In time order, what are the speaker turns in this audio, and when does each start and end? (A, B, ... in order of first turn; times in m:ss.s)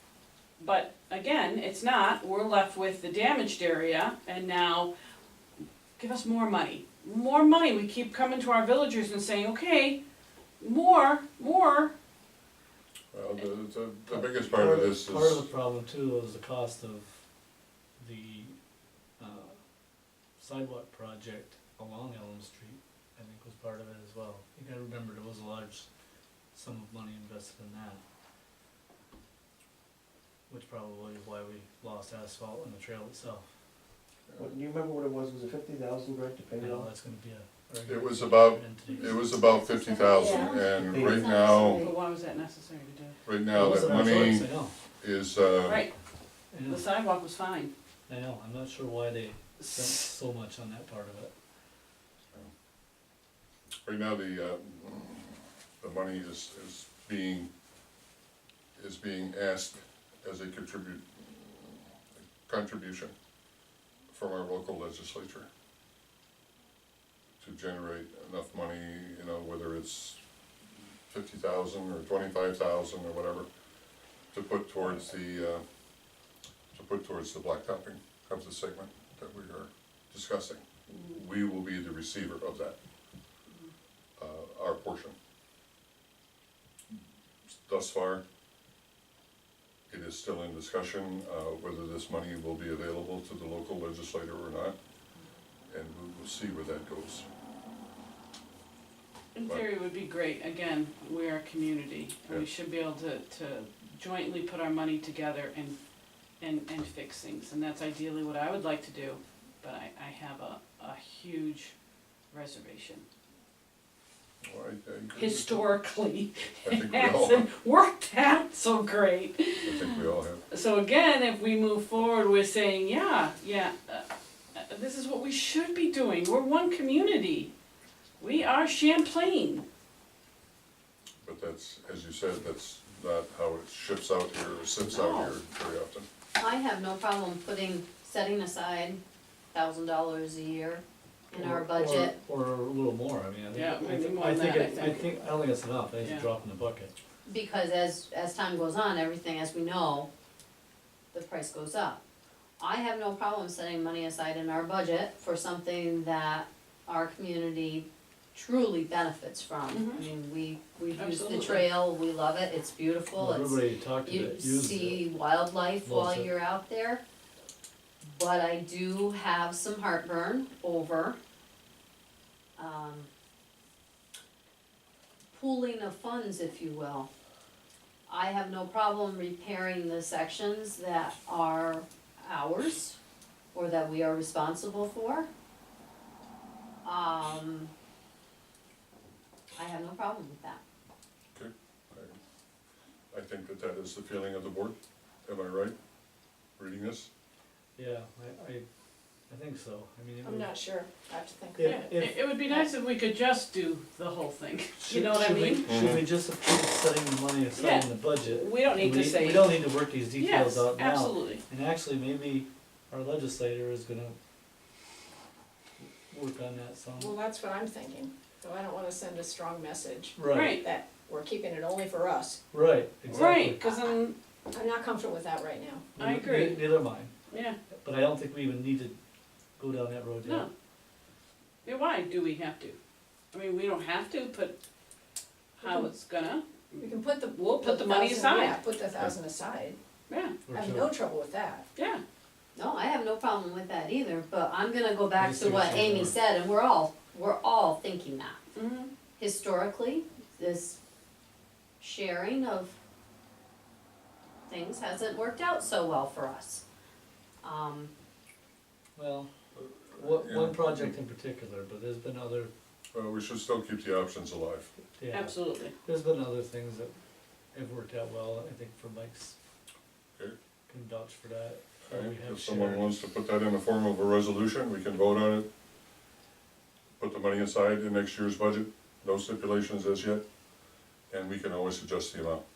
0:00.6-0:04.9 A
0:06.0-0:10.0 A
0:10.6-0:11.9 A
0:13.1-0:15.5 B
0:14.1-0:17.2 C
0:18.0-0:18.6 C
0:19.2-0:19.6 C
0:20.4-0:25.9 C
0:26.5-0:28.0 C
0:30.5-0:33.4 C
0:34.4-0:36.9 D
0:36.6-0:39.3 C
0:37.8-0:41.9 B
0:39.8-0:41.9 E
0:40.2-0:40.8 F
0:40.8-0:41.9 D
0:41.7-0:43.2 A
0:43.2-0:45.8 B
0:43.5-0:44.7 C
0:45.6-0:45.9 A
0:46.5-0:46.8 C
0:46.7-0:47.7 A
0:48.1-0:51.3 C
0:49.6-0:50.0 A
0:53.8-0:57.5 B
0:58.8-1:03.1 B
1:04.1-1:05.5 B
1:07.4-1:10.2 B
1:11.1-1:13.5 B
1:14.3-1:15.6 B
1:16.7-1:22.8 B
1:24.2-1:25.1 B
1:27.5-1:28.2 B
1:29.9-1:34.8 B
1:35.7-1:37.3 B
1:39.4-1:45.8 A
1:46.4-1:51.8 A
1:52.3-1:53.0 A
1:54.4-1:55.6 B
1:55.1-2:07.5 A
1:56.6-1:57.5 B
1:59.6-2:00.4 B
2:08.2-2:09.6 A
2:11.2-2:16.1 B
2:14.9-2:15.4 A
2:16.4-2:19.0 E
2:19.5-2:22.2 E
2:21.3-2:26.9 C
2:23.5-2:25.1 A
2:26.0-2:26.3 A
2:27.2-2:30.1 E
2:31.1-2:32.0 E
2:32.6-2:47.0 E
2:39.7-2:40.0 A
2:41.0-2:41.7 A
2:43.2-2:45.0 C
2:45.8-2:46.3 C
2:48.0-2:51.2 E
2:52.6-2:53.1 E
2:55.3-2:57.1 E
2:58.1-3:03.0 E
3:03.5-3:05.3 E
3:06.8-3:07.7 E
3:09.6-3:10.6 E
3:11.3-3:12.2 B
3:13.1-3:15.8 B
3:16.6-3:17.1 B
3:17.8-3:18.6 C
3:19.3-3:20.5 C
3:20.2-3:21.8 F
3:21.5-3:22.3 C
3:21.6-3:25.7 A
3:24.8-3:34.2 C
3:25.7-3:26.1 B
3:27.6-3:31.4 A
3:35.8-3:37.2 C
3:37.0-3:42.4 F
3:40.2-3:40.6 C
3:40.3-3:40.6 A
3:42.5-3:43.7 C
3:43.1-3:44.2 A
3:44.5-3:45.9 F
3:45.9-3:47.1 C
3:46.0-3:46.7 A
3:47.3-3:47.6 A
3:47.8-3:49.0 C
3:49.6-3:50.5 C
3:50.2-3:50.5 A
3:51.6-3:52.8 A
3:53.3-3:54.6 A
3:55.6-3:56.9 A
3:55.6-3:55.9 F
3:56.8-3:59.8 F
3:57.5-3:58.6 A
4:00.1-4:00.4 A
4:00.5-4:00.9 C
4:00.5-4:01.6 F
4:01.8-4:02.0 A
4:02.6-4:08.4 E
4:05.2-4:06.1 C
4:08.6-4:08.9 A
4:09.2-4:10.8 E
4:11.8-4:12.8 E
4:14.5-4:16.6 E
4:17.4-4:17.9 E
4:19.0-4:19.3 C
4:19.6-4:20.9 B
4:19.9-4:22.5 C
4:22.9-4:24.7 B
4:25.0-4:26.9 C
4:25.1-4:25.7 A
4:27.5-4:29.4 C
4:30.7-4:33.0 C
4:31.9-4:35.5 B
4:37.0-4:40.2 B
4:41.1-4:42.4 B